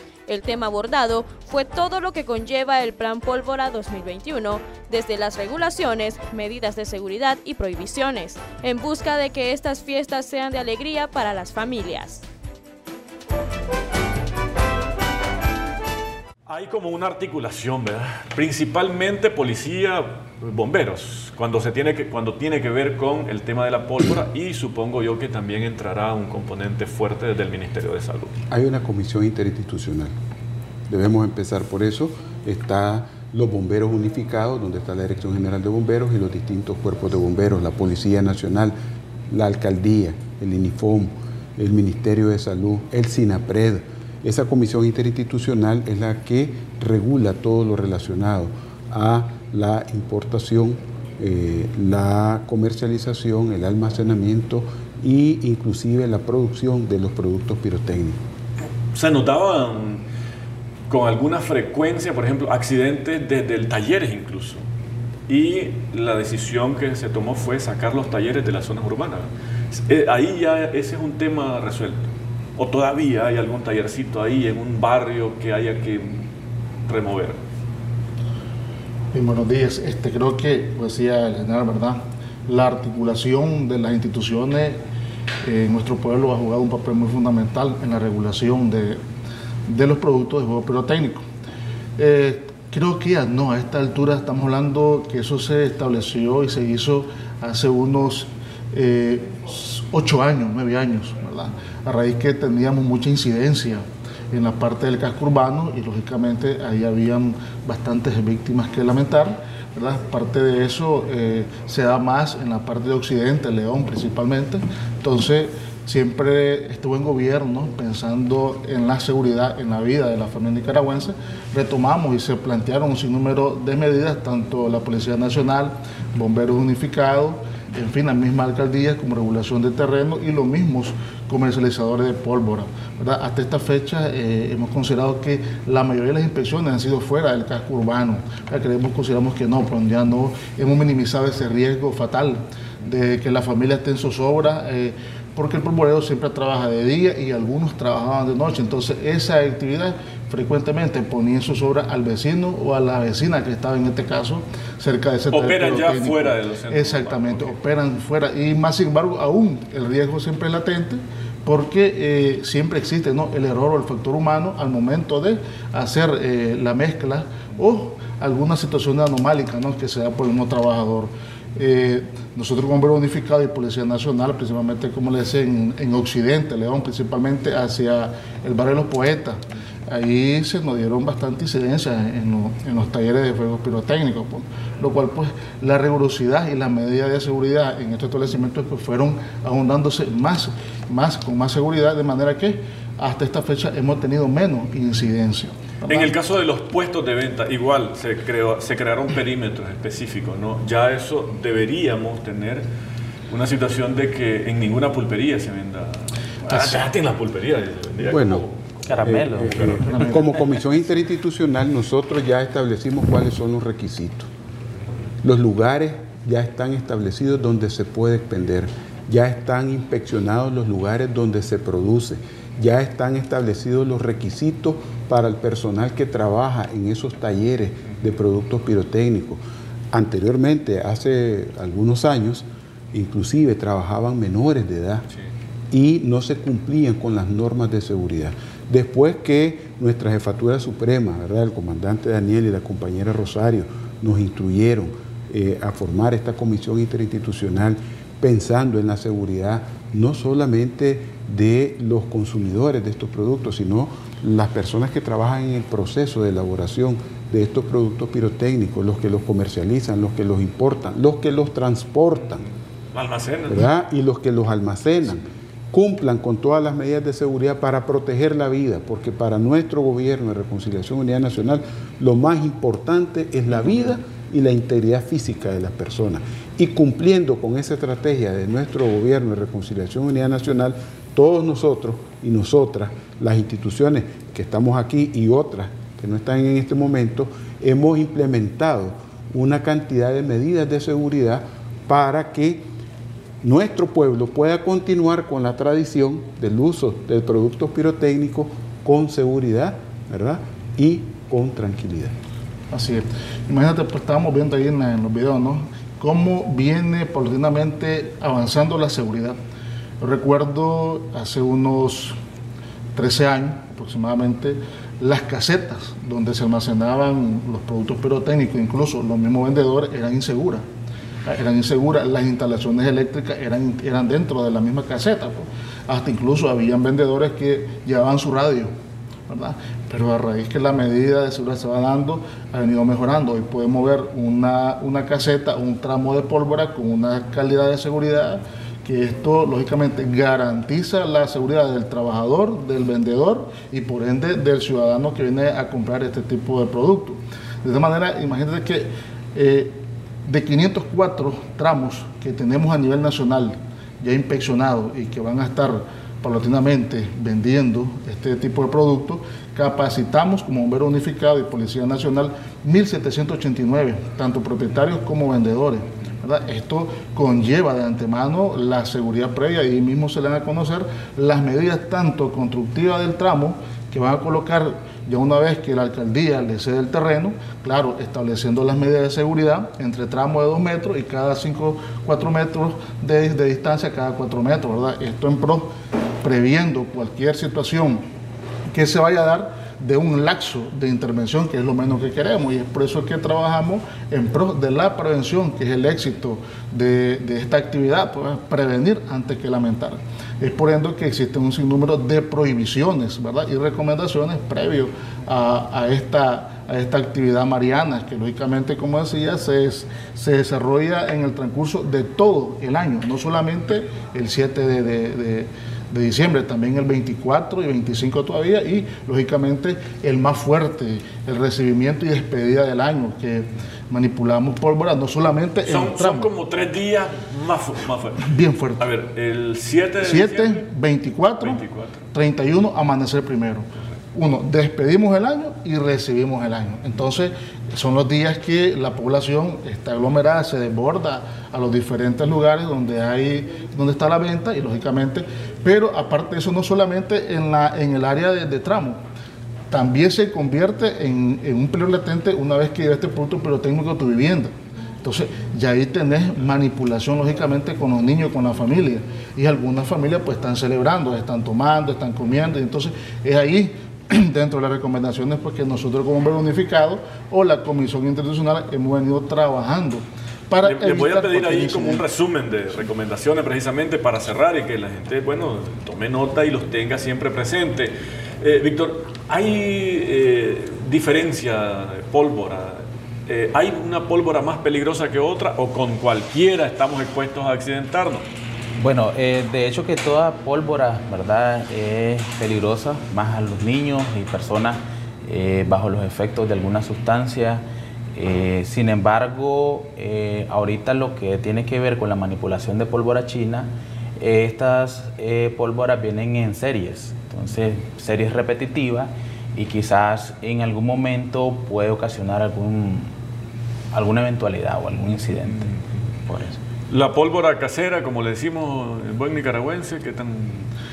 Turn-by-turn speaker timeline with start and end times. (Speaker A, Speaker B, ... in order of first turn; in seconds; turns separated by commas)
Speaker A: 0.2-12.2, Speaker B: 16.5-28.4, Speaker C: 28.5-30.1, Speaker C: 30.9-38.7, Speaker C: 39.3-58.2, Speaker B: 58.9-60.0, Speaker B: 60.9-64.6, Speaker B: 65.3-76.3, Speaker B: 76.9-77.4, Speaker D: 79.1-84.8, Speaker D: 85.4-89.0, Speaker D: 89.7-91.2, Speaker D: 92.0-196.1, Speaker B: 155.3-157.5, Speaker B: 195.9-202.7, Speaker B: 203.3-210.2, Speaker C: 208.1-208.4, Speaker E: 208.9-210.2, Speaker C: 209.0-214.3, Speaker C: 215.2-229.4, Speaker C: 229.9-235.1, Speaker C: 235.7-262.4, Speaker B: 262.9-263.6, Speaker C: 263.5-292.7, Speaker C: 293.4-302.1, Speaker D: 302.7-309.4, Speaker D: 310.0-312.1, Speaker D: 312.9-320.6, Speaker D: 321.2-328.7, Speaker D: 329.3-388.0, Speaker D: 388.7-426.3, Speaker B: 425.6-430.6, Speaker D: 428.2-428.9, Speaker D: 430.0-431.6, Speaker B: 431.4-432.0, Speaker D: 432.1-449.0, Speaker D: 449.7-454.5, Speaker D: 455.0-472.0, Speaker B: 470.6-488.2, Speaker E: 488.8-497.6, Speaker E: 498.1-513.1, Speaker E: 513.9-516.6, Speaker B: 516.9-520.7